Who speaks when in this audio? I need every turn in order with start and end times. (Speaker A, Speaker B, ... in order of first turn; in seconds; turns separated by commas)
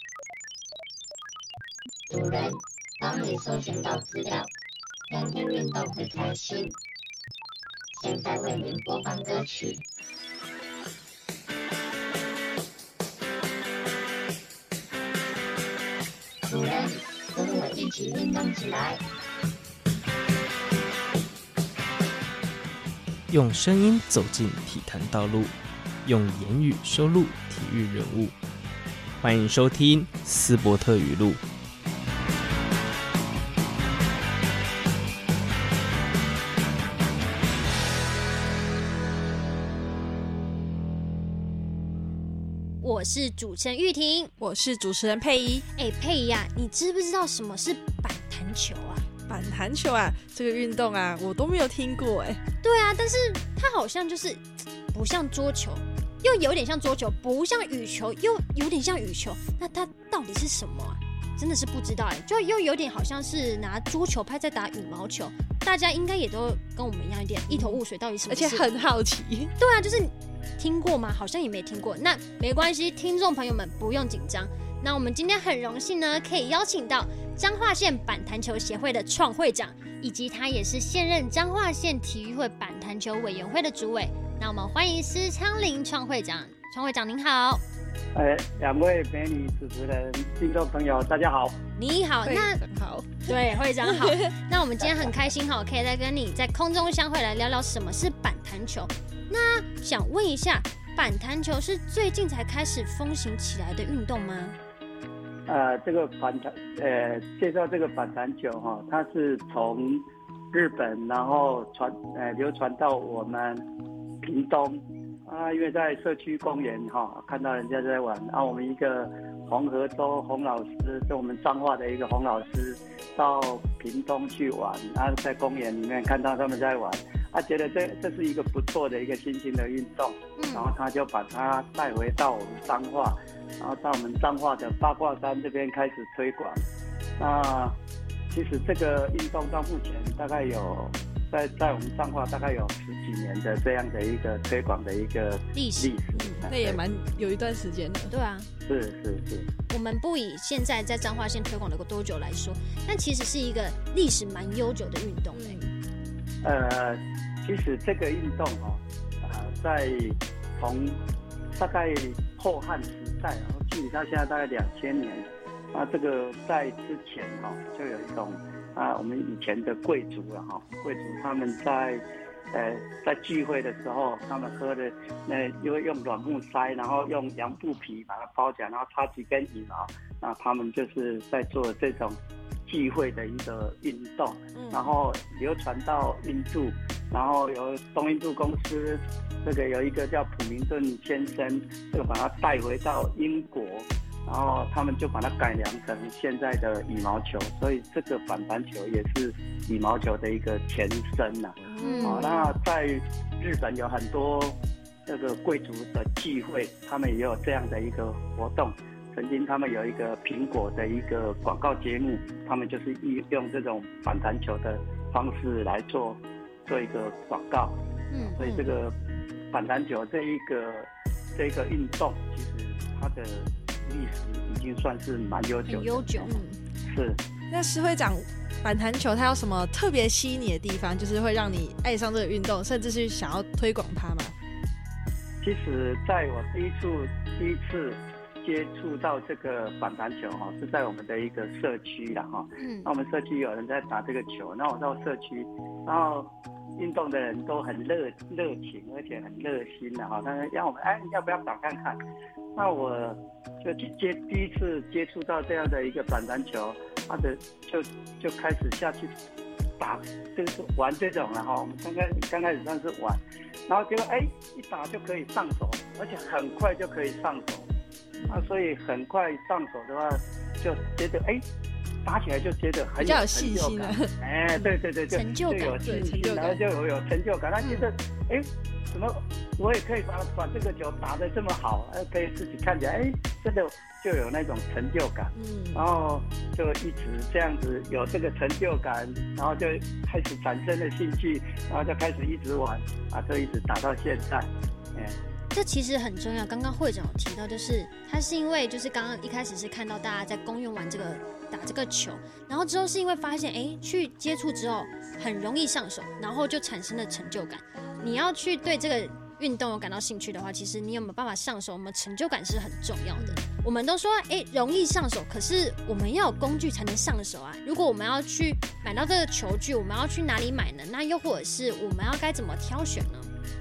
Speaker A: 2.1-4.5, Speaker A: 5.1-6.8, Speaker A: 7.9-9.8, Speaker A: 16.5-19.0, Speaker B: 23.3-28.3, Speaker B: 29.2-31.4, Speaker C: 42.8-44.3, Speaker D: 44.4-45.6, Speaker C: 45.7-49.1, Speaker D: 49.3-52.4, Speaker C: 52.6-68.7, Speaker D: 67.5-69.5, Speaker C: 69.6-87.6, Speaker E: 88.1-91.6, Speaker C: 91.8-92.6, Speaker D: 92.2-94.3, Speaker C: 93.2-104.6, Speaker E: 94.8-95.1, Speaker E: 105.5-113.6, Speaker E: 114.2-136.6, Speaker C: 130.4-130.7, Speaker E: 137.2-137.8, Speaker E: 138.3-146.8, Speaker C: 145.5-146.5, Speaker D: 146.2-148.1, Speaker C: 148.1-148.5, Speaker E: 148.6-149.4, Speaker C: 149.7-155.6, Speaker D: 155.3-155.7, Speaker E: 156.4-161.0, Speaker E: 161.6-217.8, Speaker D: 184.5-185.0, Speaker D: 201.6-202.4, Speaker C: 201.8-202.5, Speaker C: 218.1-218.4, Speaker E: 218.3-219.0, Speaker D: 218.4-218.6, Speaker E: 219.5-226.3, Speaker C: 225.7-226.4, Speaker D: 226.2-226.6, Speaker E: 226.9-227.2, Speaker D: 227.5-234.3, Speaker E: 235.4-252.0, Speaker C: 242.6-242.9, Speaker E: 252.6-259.1, Speaker E: 259.8-267.7, Speaker D: 268.2-268.5, Speaker E: 268.3-271.4, Speaker E: 272.0-295.1, Speaker D: 273.0-274.1, Speaker C: 275.1-275.8, Speaker D: 275.8-276.6, Speaker C: 277.6-277.9, Speaker D: 285.3-285.8, Speaker C: 295.5-323.3